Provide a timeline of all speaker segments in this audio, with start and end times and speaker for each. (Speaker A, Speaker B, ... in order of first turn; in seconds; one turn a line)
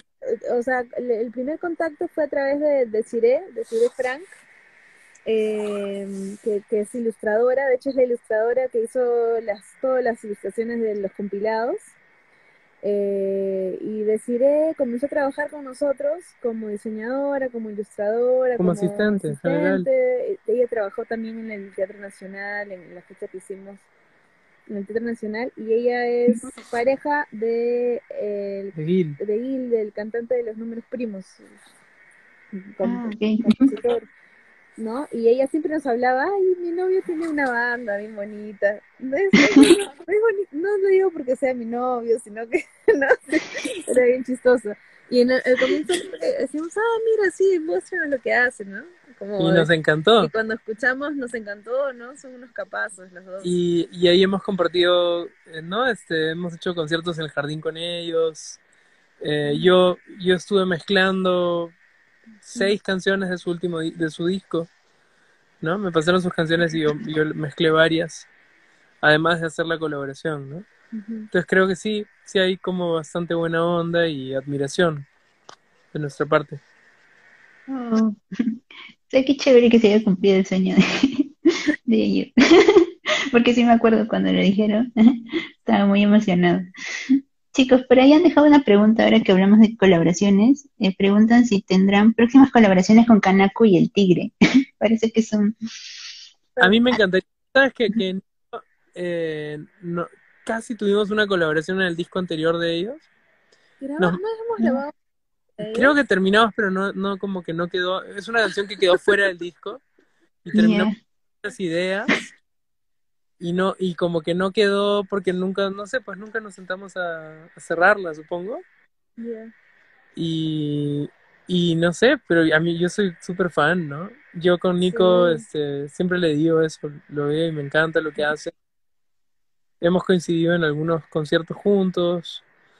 Speaker A: 0.2-4.3
Speaker A: 5.3-11.9
Speaker A: 12.8-23.8
Speaker B: 18.6-19.9
Speaker A: 24.7-31.5
Speaker B: 28.8-29.2
Speaker A: 32.5-34.1
Speaker C: 32.8-33.7
Speaker A: 34.8-53.5
Speaker B: 49.4-50.3
Speaker B: 53.4-58.6
Speaker B: 59.2-61.7
Speaker A: 59.5-59.7
Speaker B: 62.4-64.7
Speaker B: 65.6-68.3
Speaker B: 69.0-70.7
Speaker A: 70.9-71.3
Speaker B: 71.3-75.1
Speaker B: 75.9-76.6
Speaker C: 77.7-81.3
Speaker C: 81.9-95.5
Speaker A: 96.6-96.8
Speaker B: 96.6-103.1
Speaker A: 103.8-104.9
Speaker A: 105.6-106.0
Speaker B: 105.7-109.8
Speaker B: 110.4-110.9
Speaker C: 110.5-110.9
Speaker B: 111.4-112.3
Speaker B: 113.4-118.6
Speaker A: 119.2-119.5
Speaker B: 120.2-128.5
Speaker A: 124.8-125.5
Speaker B: 129.8-132.4